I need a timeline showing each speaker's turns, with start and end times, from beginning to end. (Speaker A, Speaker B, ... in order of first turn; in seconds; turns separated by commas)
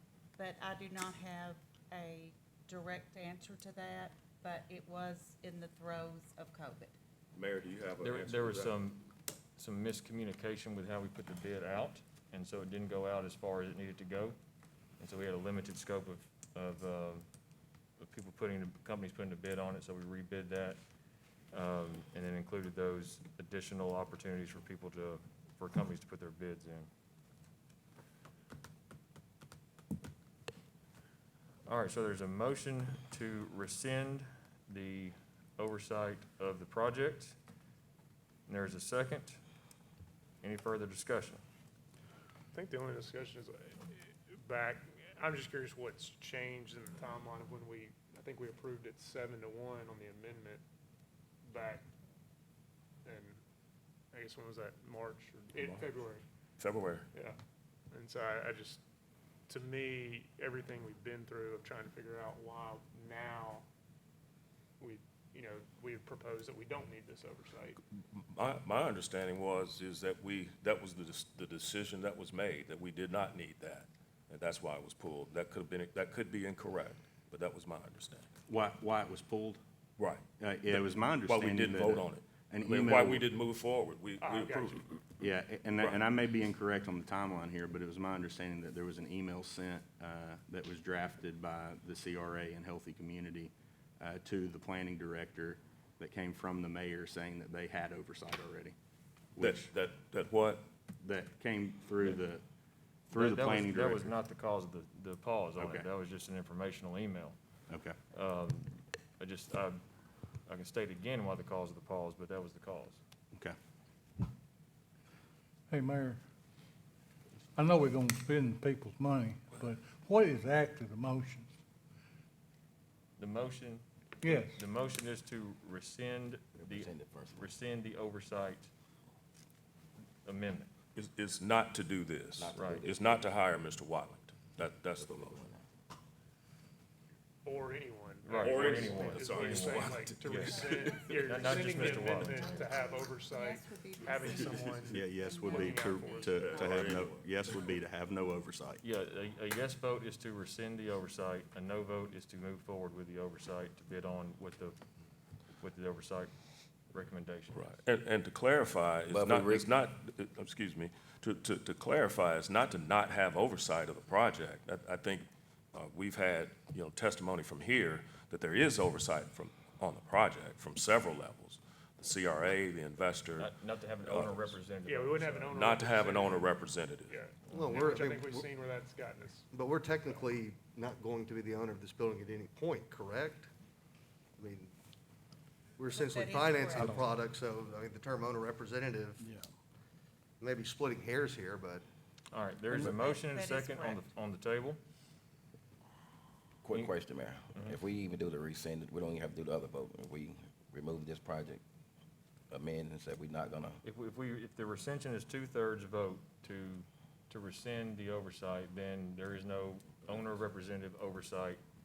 Speaker A: 0.3-7.0, Speaker B: 7.3-8.8, Speaker C: 8.0-14.4, Speaker C: 15.0-17.2, Speaker C: 18.0-20.8, Speaker C: 21.5-26.9, Speaker C: 31.6-37.4, Speaker C: 38.5-39.4, Speaker C: 40.4-41.4, Speaker D: 42.5-50.6, Speaker D: 51.4-51.8, Speaker D: 53.0-53.4, Speaker D: 54.1-56.2, Speaker B: 55.4-56.0, Speaker B: 56.6-57.1, Speaker D: 57.9-58.8, Speaker D: 59.5-63.6, Speaker D: 64.8-67.8, Speaker B: 68.2-78.3, Speaker E: 78.5-79.6, Speaker B: 80.0-85.0, Speaker E: 80.4-83.2, Speaker D: 84.2-84.8, Speaker E: 85.2-98.7, Speaker E: 99.3-99.7, Speaker B: 99.4-100.7, Speaker E: 101.0-102.4, Speaker E: 103.1-104.1, Speaker C: 103.1-107.4, Speaker E: 105.6-105.9, Speaker E: 107.7-108.0, Speaker C: 108.1-109.8, Speaker C: 110.4-113.0, Speaker F: 115.7-116.2, Speaker F: 117.5-121.5, Speaker C: 123.2-128.7, Speaker F: 124.2-124.6, Speaker G: 126.6-127.5, Speaker C: 130.2-130.7, Speaker B: 130.9-135.4, Speaker G: 132.3-133.2, Speaker C: 132.5-132.8, Speaker G: 135.0-135.6, Speaker D: 137.4-145.0, Speaker C: 138.2-142.6, Speaker B: 138.4-141.4, Speaker A: 142.6-146.7, Speaker E: 144.8-148.8, Speaker D: 145.5-146.3, Speaker B: 146.3-147.3, Speaker C: 148.8-154.8, Speaker C: 155.6-156.3, Speaker C: 156.9-157.7, Speaker B: 157.5-173.5, Speaker G: 159.1-159.7, Speaker C: 173.4-175.6, Speaker B: 174.0-174.6, Speaker D: 174.8-176.5, Speaker B: 175.5-177.2, Speaker D: 177.1-179.4, Speaker H: 177.5-178.5, Speaker H: 179.5-183.5, Speaker H: 184.4-184.7, Speaker H: 185.8-189.3, Speaker A: 185.9-186.8, Speaker H: 190.4-191.8, Speaker C: 192.3-194.8, Speaker A: 193.2-194.0, Speaker G: 196.6-201.6, Speaker G: 202.5-203.8, Speaker C: 203.8-211.6